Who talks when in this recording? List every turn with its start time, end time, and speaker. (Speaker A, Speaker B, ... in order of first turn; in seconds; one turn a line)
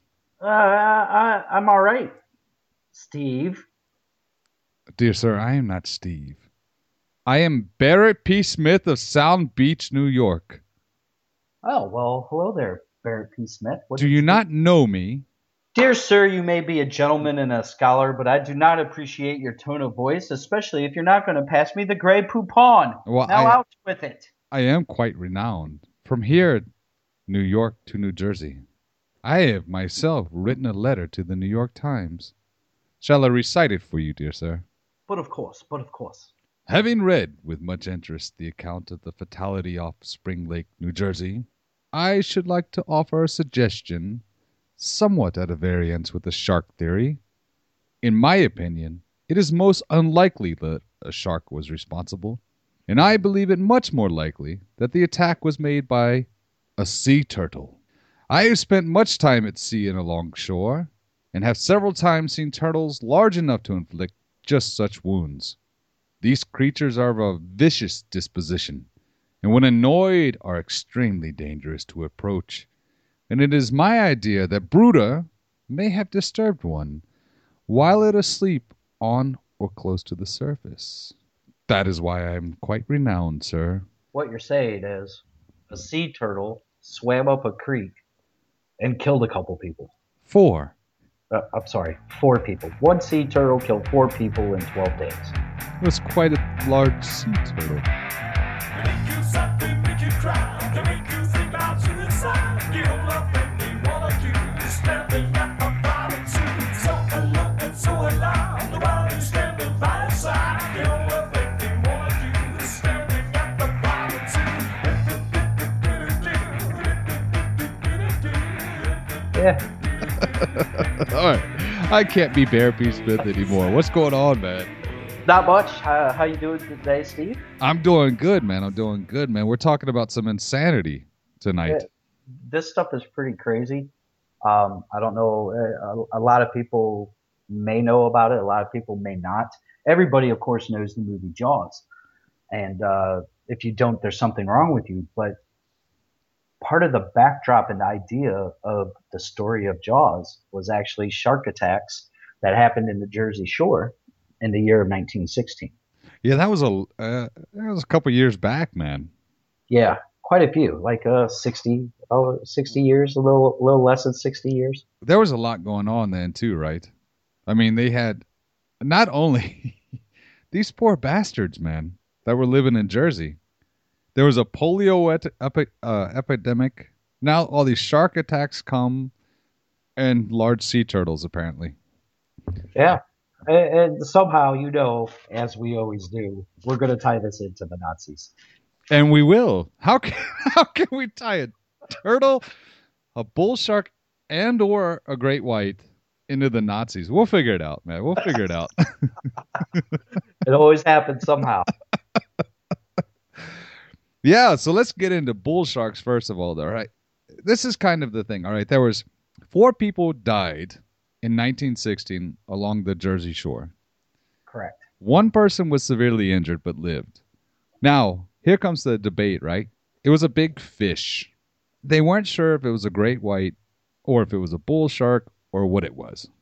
Speaker A: 0.4-2.1
Speaker A: 2.9-3.6
Speaker B: 5.0-6.4
Speaker B: 7.3-10.6
Speaker A: 11.6-14.4
Speaker B: 13.9-15.2
Speaker A: 15.7-24.3
Speaker B: 23.1-23.6
Speaker B: 24.5-26.7
Speaker B: 27.3-28.6
Speaker B: 29.2-32.3
Speaker B: 33.0-34.6
Speaker A: 35.1-36.3
Speaker B: 36.7-44.2
Speaker B: 44.8-47.2
Speaker B: 48.0-57.8
Speaker B: 58.3-65.6
Speaker B: 66.2-68.9
Speaker B: 69.4-72.7
Speaker B: 73.3-77.0
Speaker B: 77.7-81.1
Speaker B: 81.7-83.8
Speaker A: 84.1-88.0
Speaker A: 88.8-89.9
Speaker B: 90.2-90.7
Speaker A: 91.3-95.3
Speaker B: 95.8-97.9
Speaker C: 98.7-119.3
Speaker A: 119.3-119.6
Speaker B: 120.2-124.7
Speaker A: 125.2-127.4
Speaker B: 127.6-131.9
Speaker A: 132.4-133.9
Speaker A: 134.4-141.8
Speaker A: 142.5-145.4
Speaker A: 146.6-155.7
Speaker B: 156.2-159.1
Speaker A: 159.7-164.8
Speaker B: 165.0-166.9
Speaker B: 167.5-168.2
Speaker B: 168.8-169.8
Speaker B: 170.5-173.4
Speaker B: 174.2-179.1
Speaker B: 180.0-181.8
Speaker A: 182.8-188.3
Speaker B: 188.9-192.5
Speaker B: 193.2-199.1
Speaker A: 200.4-201.7
Speaker B: 204.2-206.9
Speaker B: 207.4-213.7
Speaker A: 214.5-214.8
Speaker B: 215.0-217.2
Speaker B: 217.8-221.3
Speaker B: 221.8-226.3